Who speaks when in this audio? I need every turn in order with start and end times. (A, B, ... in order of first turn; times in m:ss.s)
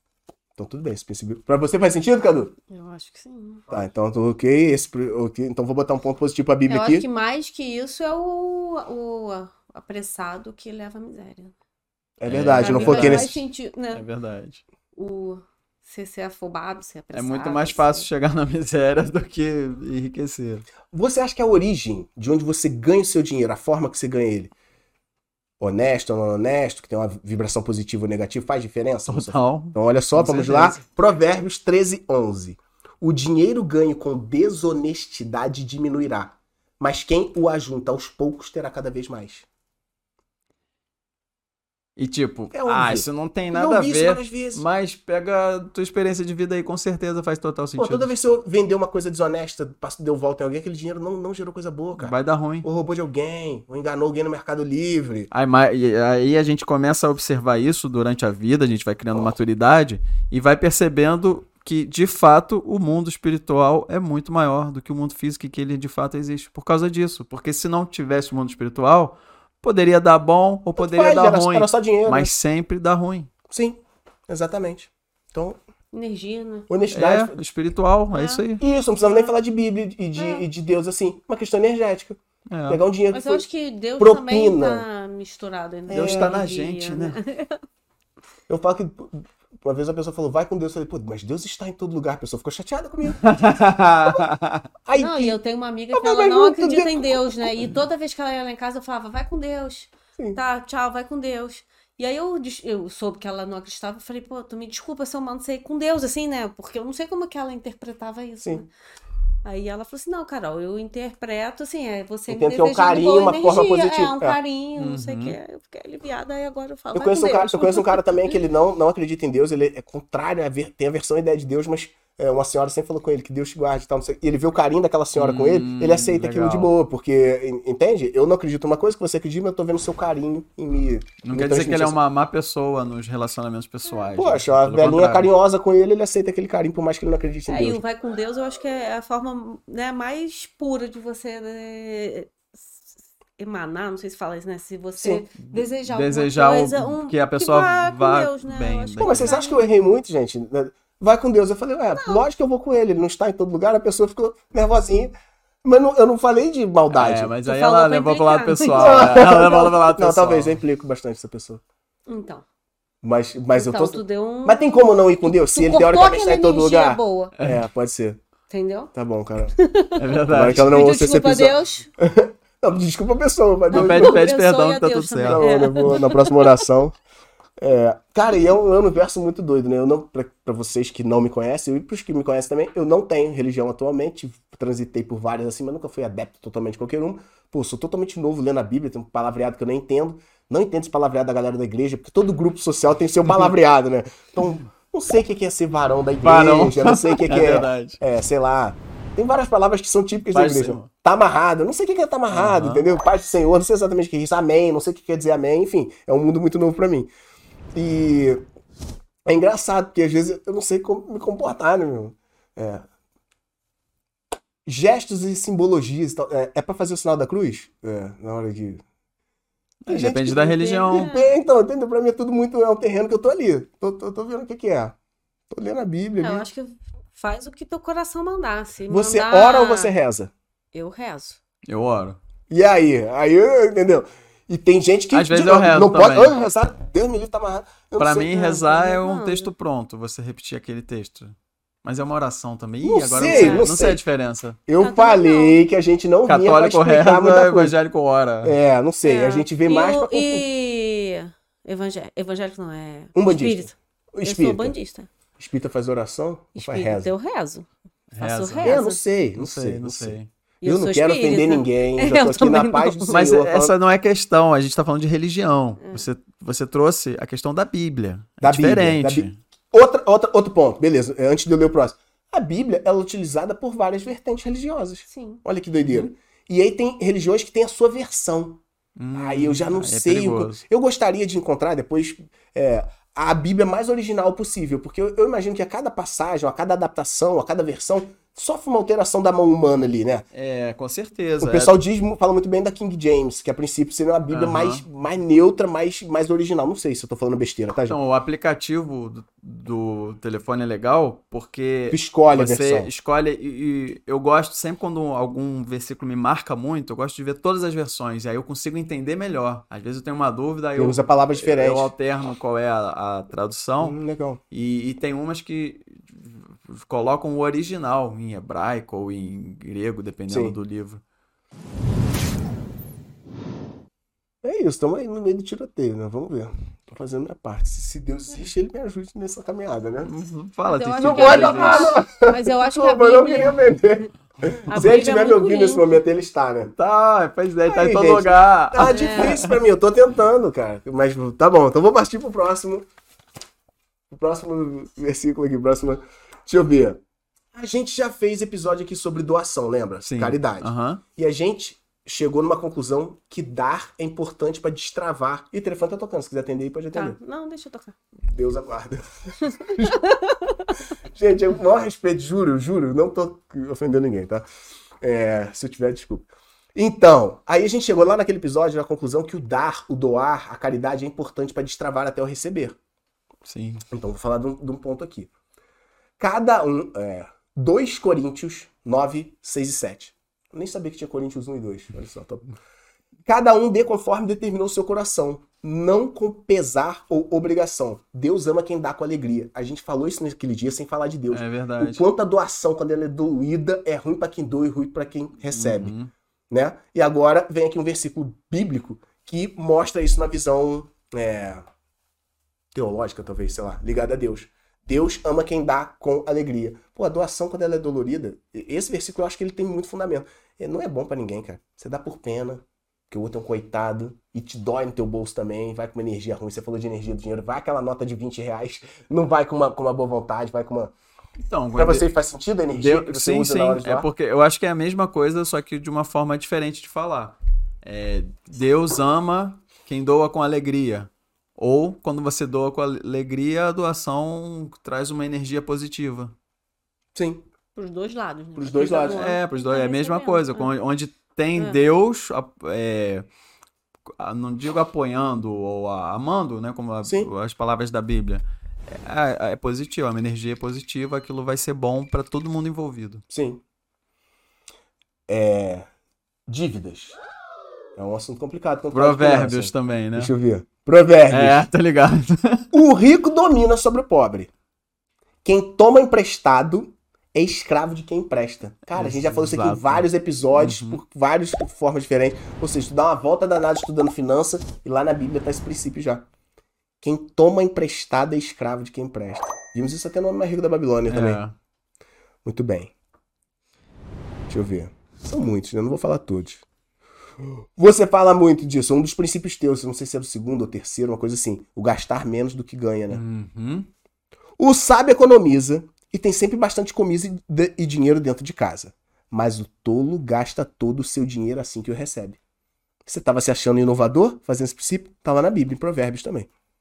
0:00.6-0:02.5 A
0:02.7-0:03.7 B
0:03.7-0:07.0 A
0:06.7-0:11.5 B
0:12.2-0:13.4 A
0:12.2-0:13.4 C
0:12.6-0:14.0 B
0:13.9-0:14.6 C
0:15.0-0:18.0 B
0:17.1-0:20.6 C
0:20.9-0:24.5 A
0:25.6-0:39.5 A
0:29.1-0:30.8 C
0:42.0-0:48.1 C
0:42.5-0:44.6 A
0:47.8-0:55.3 A
0:52.0-0:52.7 C
0:55.3-1:13.3 C
1:10.8-1:12.3 A
1:13.5-1:15.6 A
1:15.9-1:16.7 B
1:16.7-1:17.4 A
1:16.9-1:18.6 C
1:18.1-1:18.4 B
1:18.6-1:23.4 A
1:20.2-1:20.4 B
1:22.5-1:22.8 C
1:23.1-1:27.6 B
1:24.0-1:24.8 A
1:25.9-1:26.4 A
1:25.9-1:27.2 C
1:28.5-1:33.2 A
1:33.2-1:34.6 C
1:34.8-1:35.4 A
1:35.0-1:48.7 B
1:35.9-1:37.6 A
1:49.4-1:58.3 B
1:52.3-1:54.4 A
1:54.8-1:55.4 C
1:56.9-2:12.0 A
2:05.1-2:06.7 C
2:11.2-2:15.3 C
2:14.1-2:17.8 A
2:17.5-2:22.8 B
2:23.4-2:29.7 B
2:25.0-2:25.2 A
2:25.4-2:29.4 C
2:29.0-2:37.3 A
2:32.0-2:32.2 B
2:36.9-2:40.6 C
2:37.4-2:39.5 B
2:38.7-2:41.6 A
2:42.1-2:42.4 B
2:43.0-2:48.2 A
2:43.5-2:47.4 B
2:48.5-2:48.9 B
2:48.9-2:49.5 A
2:49.6-2:51.9 B
2:50.0-2:50.9 C
2:50.3-2:54.3 A
2:53.7-2:56.3 B
2:53.7-2:56.0 C
2:55.2-2:57.0 A
2:57.6-3:27.1 A
3:16.2-3:18.0 C
3:20.3-3:20.9 C
3:22.3-3:22.9 C
3:27.8-3:28.4 A
3:29.3-3:32.9 A
3:34.6-3:38.8 A
3:39.9-3:41.1 C
3:39.9-3:45.0 A
3:40.3-3:41.3 B
3:45.5-3:46.5 A
3:46.2-3:49.9 B
3:48.9-3:50.3 A
3:50.7-3:51.4 B
3:51.7-3:52.2 C
3:52.5-3:58.4 A
3:55.1-3:56.4 C
3:58.0-4:04.6 C
3:58.3-3:59.5 B
4:02.8-4:04.0 A
4:03.2-4:03.7 B
4:04.7-4:07.8 A
4:04.8-4:05.6 B
4:06.2-4:08.6 C
4:08.4-4:10.4 A
4:09.0-4:15.1 B
4:13.1-4:14.8 A
4:15.4-4:17.1 A
4:16.5-4:17.7 B
4:18.1-4:18.8 C
4:18.2-4:19.0 B
4:18.6-4:23.7 A
4:19.4-4:20.3 C
4:20.6-4:23.2 B
4:23.1-4:29.4 C
4:28.4-4:38.6 A
4:35.1-4:35.4 B
4:39.0-4:40.6 C
4:39.1-4:50.2 A
4:50.3-4:51.7 C
4:51.4-4:58.0 A
4:54.3-4:54.8 C
4:57.9-5:14.0 C
5:01.9-5:02.9 A
5:10.8-5:11.9 A
5:13.8-5:14.4 A
5:14.5-5:21.0 C
5:20.3-5:20.5 A
5:24.4-5:30.1 A
5:30.0-5:32.0 C
5:30.6-5:33.7 B
5:31.0-5:36.8 A
5:34.6-5:36.0 B
5:36.8-5:39.6 C
5:37.7-5:42.8 A
5:38.8-5:39.4 B
5:44.1-5:47.0 A
5:47.5-5:57.2 A
5:50.0-5:51.0 C
5:56.9-5:58.0 B
5:58.2-6:00.0 A
5:59.7-6:00.8 B
6:01.1-6:04.5 A
6:05.0-6:12.8 A
6:13.5-6:13.8 C
6:13.9-6:15.3 A
6:16.2-6:22.4 A
6:23.2-6:35.9 A
6:31.3-6:32.0 C
6:35.5-6:36.1 C
6:36.5-6:41.6 A
6:42.7-7:00.9 A
7:01.4-7:02.1 C
7:01.7-7:04.1 A
7:02.7-7:16.3 C
7:17.1-7:17.4 A
7:17.7-7:20.7 B
7:18.6-7:19.3 A
7:18.8-7:23.3 C
7:24.2-7:33.2 C
7:27.0-7:27.3 A
7:33.3-7:33.6 A
7:35.3-7:35.9 A
7:36.5-7:37.2 A
7:38.0-7:41.6 A
7:38.9-7:40.3 C
7:41.3-7:42.6 C
7:42.7-7:44.5 A
7:45.4-7:56.3 A
7:48.9-7:51.0 C
7:57.0-8:01.4 A
8:01.1-8:01.5 C
8:02.4-8:02.9 A
8:04.5-8:06.6 A
8:07.4-8:13.2 A
8:13.1-8:13.9 C
8:14.6-8:22.4 A
8:23.1-8:26.5 A